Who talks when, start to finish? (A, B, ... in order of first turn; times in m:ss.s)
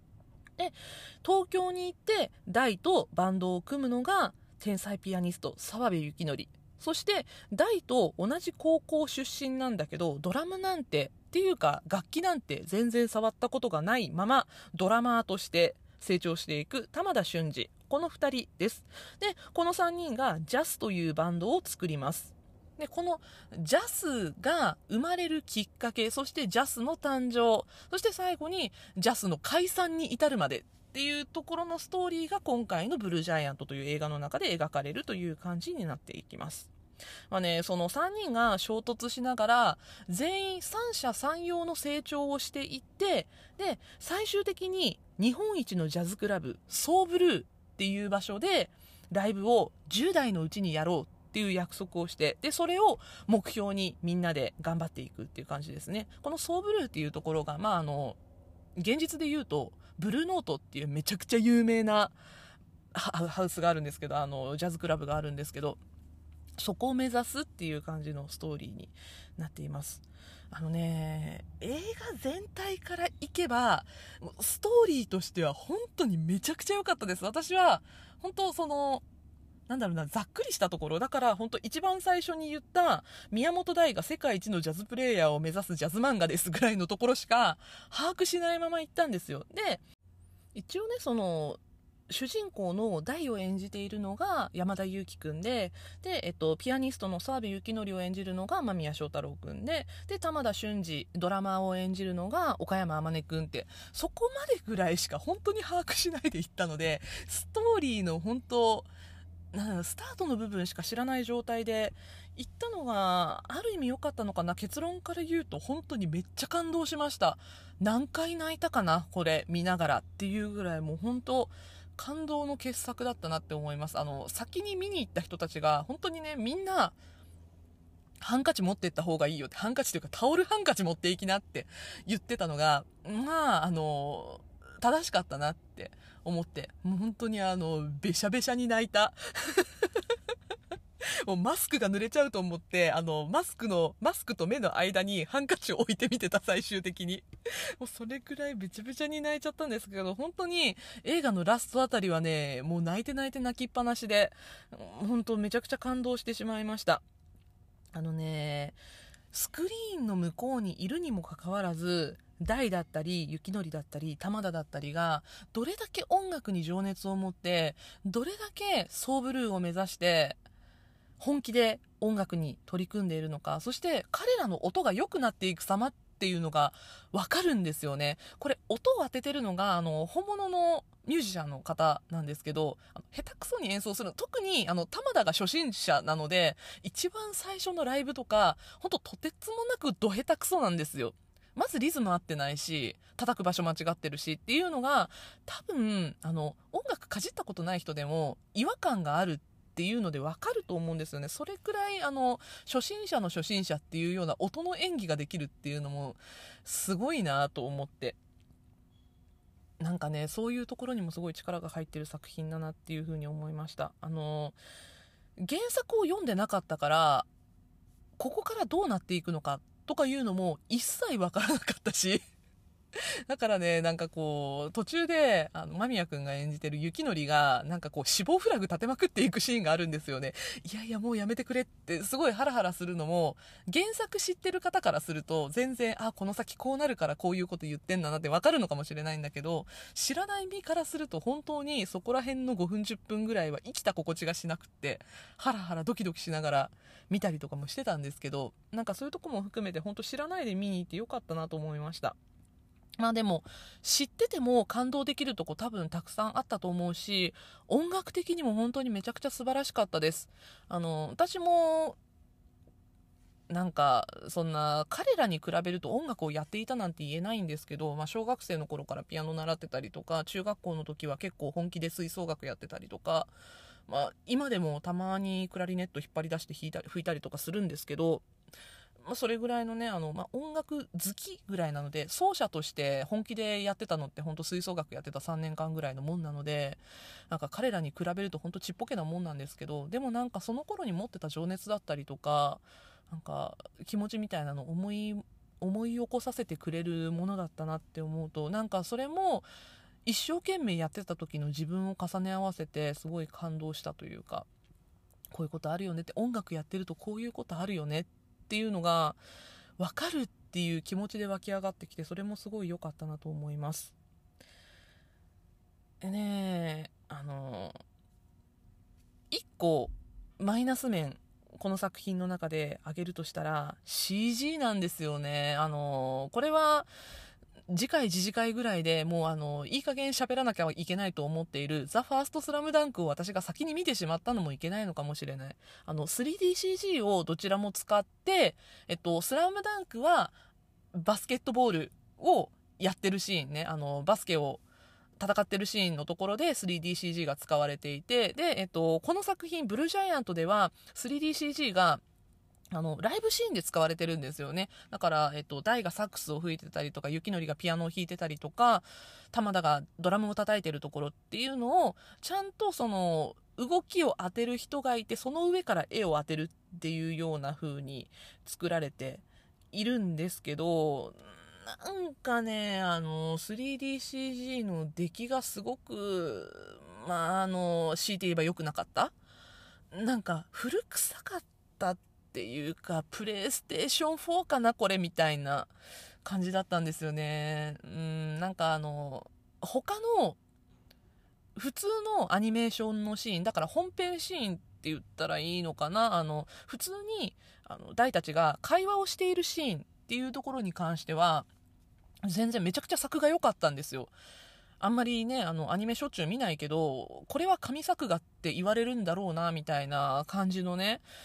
0:00.6-0:36.7 A
0:37.3-0:58.2 A
0:58.8-1:02.2 A
1:02.9-1:05.8 A
1:06.6-1:19.0 A
1:19.7-1:29.8 A
1:30.6-1:48.9 A
1:49.5-2:07.0 A
2:08.2-2:19.9 A
2:21.2-2:27.3 A
2:27.8-2:37.0 A
2:37.9-2:38.8 A
2:39.3-2:50.4 A
2:51.2-3:28.2 A
3:29.8-3:34.6 A
3:35.4-3:37.3 A
3:38.2-3:42.2 A
3:43.3-4:12.2 A
4:13.0-4:22.0 A
4:23.5-4:33.3 A
4:33.9-4:38.2 A
4:39.0-4:59.5 A
5:00.0-5:04.5 A
5:05.3-5:09.2 A
5:09.8-5:14.0 A
5:16.0-5:17.7 A
5:19.3-5:26.9 A
5:27.7-5:40.4 A
5:40.9-5:44.6 A
5:45.2-5:52.0 A
5:52.7-6:19.1 A
6:19.9-6:25.7 A
6:26.2-6:30.4 A
6:31.6-6:41.5 A
6:42.2-6:44.1 A
6:44.8-6:51.0 A